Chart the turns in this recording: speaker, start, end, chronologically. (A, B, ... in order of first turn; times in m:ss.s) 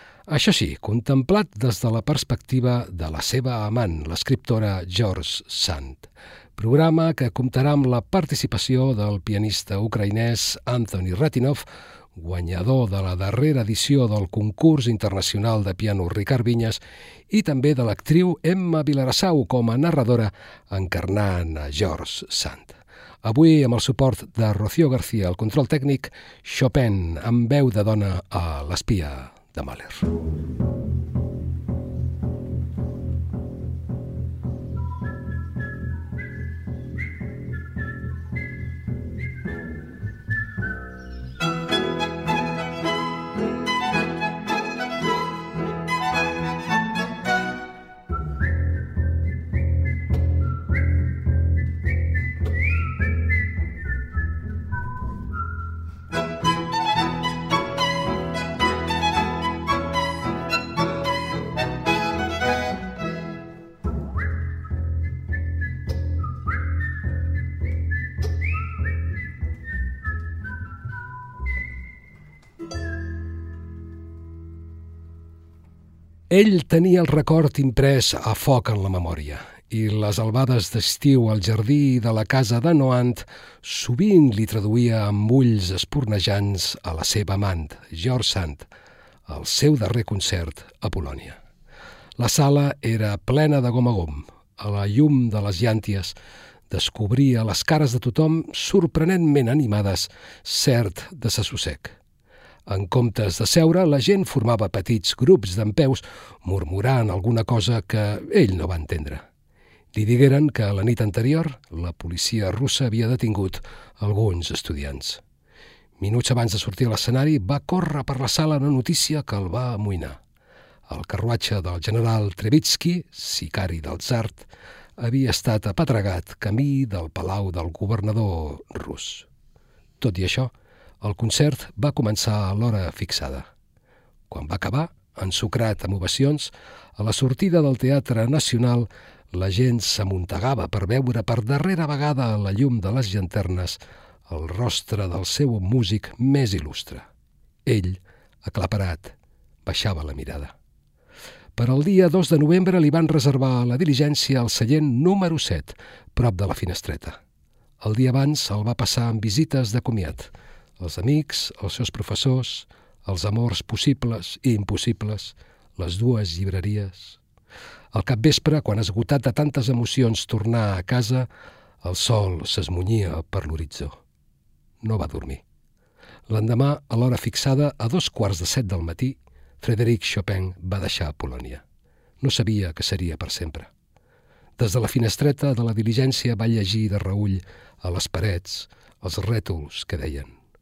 0:00.3-0:16.8 A
0:17.3-0:30.1 A
1:16.3-1:28.7 A
1:29.3-1:31.4 A
1:32.2-1:36.2 A
1:36.7-1:42.0 A
1:42.7-1:49.2 A
1:49.9-1:55.2 A
1:56.0-2:00.2 A
2:00.9-2:09.3 A
2:10.0-2:13.5 A
2:14.3-2:27.1 A
2:27.7-2:29.2 A
2:29.7-2:30.5 A
2:31.6-2:37.2 A
2:37.8-2:47.2 A
2:47.9-2:51.3 A
2:51.8-2:54.0 A
2:54.8-2:55.4 A
2:56.3-3:01.6 A
3:02.2-3:03.7 A
3:04.6-3:10.4 A